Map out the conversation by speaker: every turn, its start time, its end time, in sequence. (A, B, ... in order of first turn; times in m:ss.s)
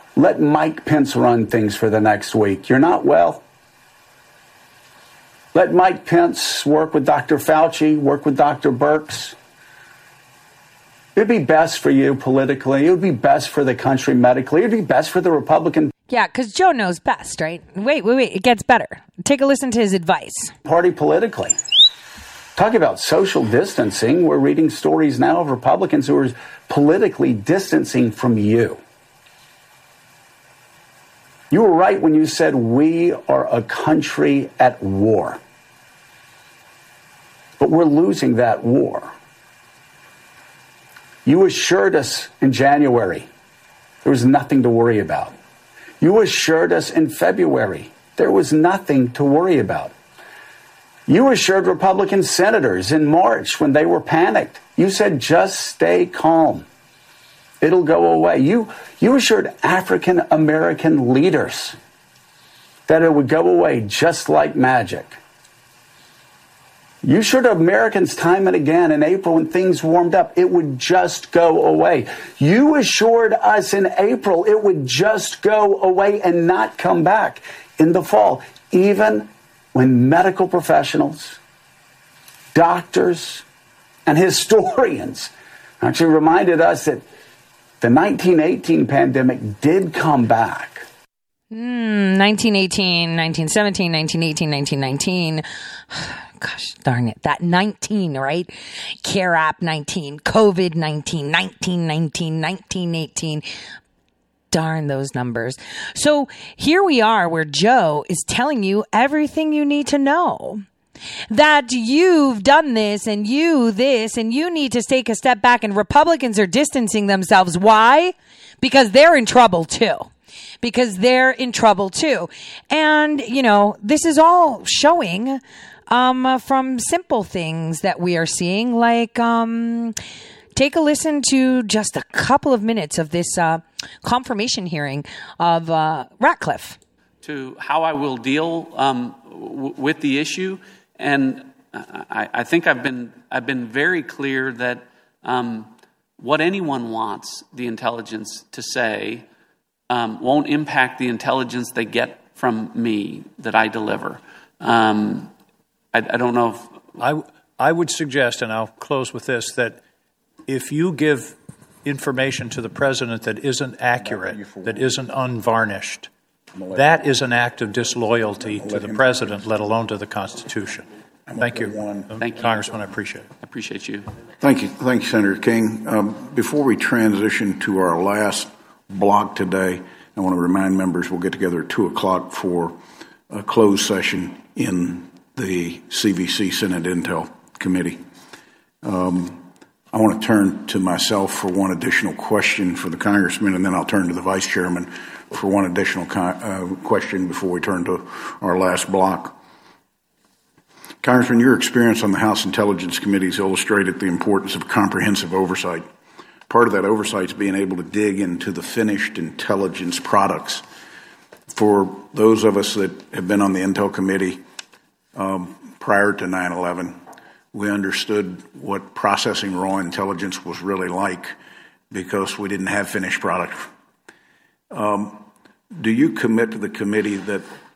0:00.2-0:03.4 A
0:05.5-0:09.4 A
0:11.1-0:15.9 A
0:16.1-0:20.5 B
0:20.6-0:21.6 A
0:22.6-0:28.8 A
0:31.5-0:35.4 A
0:37.6-0:39.1 A
0:41.2-0:43.3 A
0:44.0-0:45.3 A
0:46.0-0:49.9 A
0:51.1-0:56.7 A
0:57.6-1:01.8 A
1:02.9-1:05.2 A
1:07.0-1:21.4 A
1:22.5-1:23.4 A
1:24.0-1:27.0 A
1:27.8-1:30.8 A
1:31.5-1:38.5 B
1:39.0-1:43.4 B
1:44.5-1:50.6 B
1:51.3-2:09.9 B
2:10.5-2:16.8 B
2:17.2-2:29.2 C
2:29.9-2:35.3 C
2:35.9-2:36.9 C
2:37.0-2:39.8 D
2:40.5-2:46.1 D
2:44.0-2:44.9 E
2:46.6-2:47.0 E
2:46.7-2:53.3 D
2:48.4-2:49.3 E
2:51.3-2:52.1 E
2:52.2-2:52.7 C
2:53.4-2:54.1 C
2:54.4-3:02.8 E
3:03.3-3:08.0 E
3:08.8-3:19.3 E
3:21.0-3:25.9 E
3:26.5-3:30.6 E
3:31.5-3:34.4 E
3:35.1-3:37.0 E
3:37.5-3:41.3 E
3:41.9-3:43.7 E
3:44.7-3:47.4 E